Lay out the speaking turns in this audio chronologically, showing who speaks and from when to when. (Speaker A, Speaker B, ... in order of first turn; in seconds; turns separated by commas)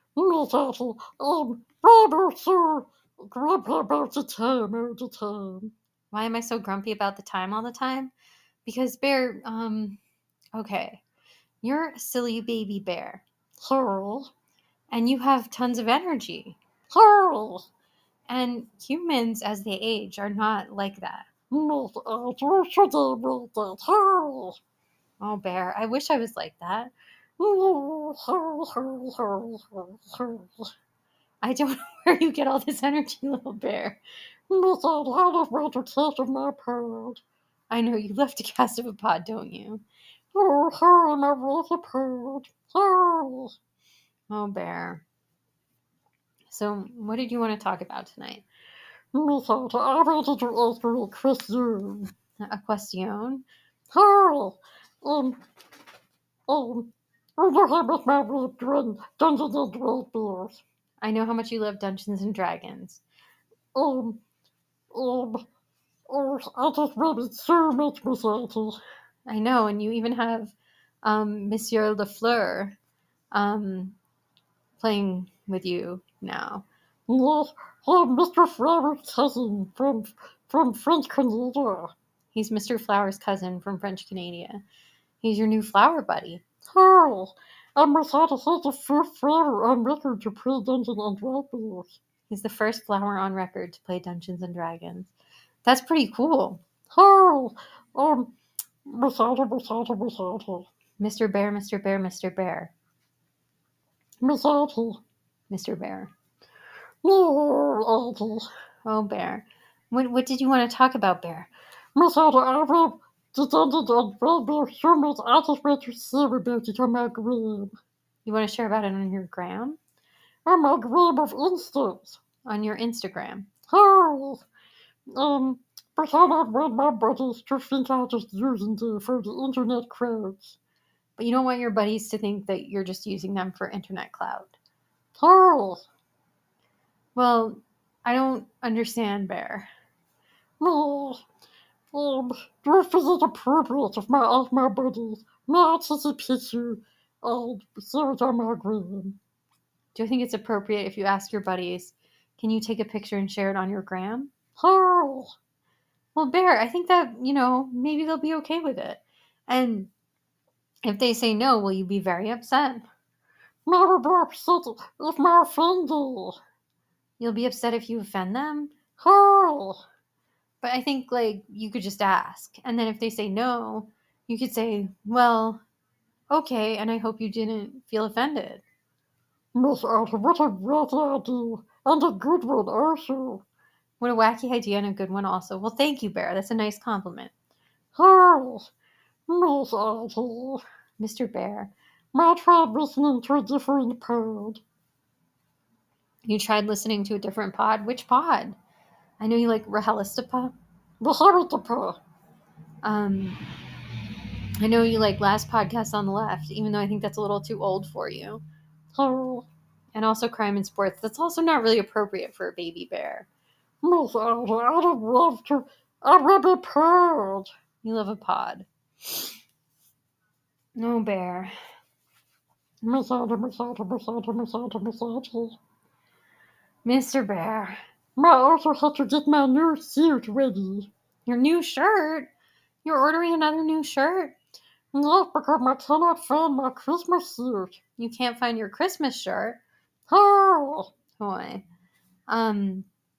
Speaker A: 0.1-5.7, Speaker B: 6.1-8.1, Speaker B: 8.6-10.0, Speaker B: 10.5-11.0, Speaker B: 11.6-13.2, Speaker A: 13.6-14.3, Speaker B: 14.9-16.6, Speaker A: 16.9-17.7, Speaker B: 18.3-21.3, Speaker A: 21.5-24.6, Speaker B: 25.2-26.9, Speaker A: 27.4-30.7, Speaker B: 31.4-34.0, Speaker A: 34.5-37.2, Speaker B: 37.7-39.8, Speaker A: 40.3-43.5, Speaker B: 44.3-45.0, Speaker B: 46.5-48.4, Speaker A: 49.1-52.1, Speaker B: 52.4-53.4, Speaker A: 53.9-55.4, Speaker A: 56.5-60.6, Speaker B: 61.0-63.0, Speaker A: 63.7-64.2, Speaker A: 64.9-65.4, Speaker A: 66.1-68.8, Speaker B: 69.3-72.8, Speaker B: 73.3-74.0, Speaker B: 74.8-76.7, Speaker A: 77.1-81.9, Speaker B: 82.3-84.6, Speaker B: 85.2-86.4, Speaker A: 86.6-92.0, Speaker B: 92.3-95.1, Speaker B: 95.6-96.6, Speaker A: 96.9-98.3, Speaker A: 98.8-100.7, Speaker B: 101.0-102.7, Speaker A: 104.2-105.0, Speaker B: 105.5-106.1, Speaker A: 107.0-108.5, Speaker B: 108.8-111.5, Speaker A: 112.0-117.7, Speaker B: 118.2-119.8, Speaker A: 120.5-122.2, Speaker B: 122.4-123.5, Speaker A: 123.7-124.5, Speaker A: 125.1-130.6, Speaker B: 131.2-134.5, Speaker A: 135.1-135.8, Speaker B: 137.1-139.7, Speaker A: 140.6-141.2, Speaker A: 141.9-149.2, Speaker B: 149.9-154.3, Speaker A: 154.6-155.3, Speaker B: 156.1-159.9, Speaker B: 160.8-162.8, Speaker A: 163.7-166.4, Speaker B: 167.2-168.7, Speaker A: 168.9-169.8, Speaker B: 170.6-175.6, Speaker B: 176.3-178.6, Speaker A: 179.5-183.4, Speaker B: 184.0-187.3, Speaker A: 187.9-188.7, Speaker A: 189.3-190.6, Speaker B: 191.0-191.7, Speaker A: 192.1-194.6, Speaker B: 196.2-198.6, Speaker B: 199.2-200.5, Speaker A: 201.0-202.0, Speaker B: 202.8-203.4, Speaker B: 204.6-208.4, Speaker A: 208.9-209.5, Speaker B: 209.9-213.3, Speaker A: 213.8-217.5, Speaker B: 217.8-218.7, Speaker B: 220.8-221.5, Speaker A: 222.8-225.6, Speaker B: 226.8-227.8, Speaker A: 228.2-230.9, Speaker B: 231.2-232.3, Speaker B: 232.8-234.3, Speaker A: 234.9-237.8, Speaker B: 238.0-239.6, Speaker A: 240.1-240.9, Speaker B: 241.2-241.6, Speaker B: 242.3-242.8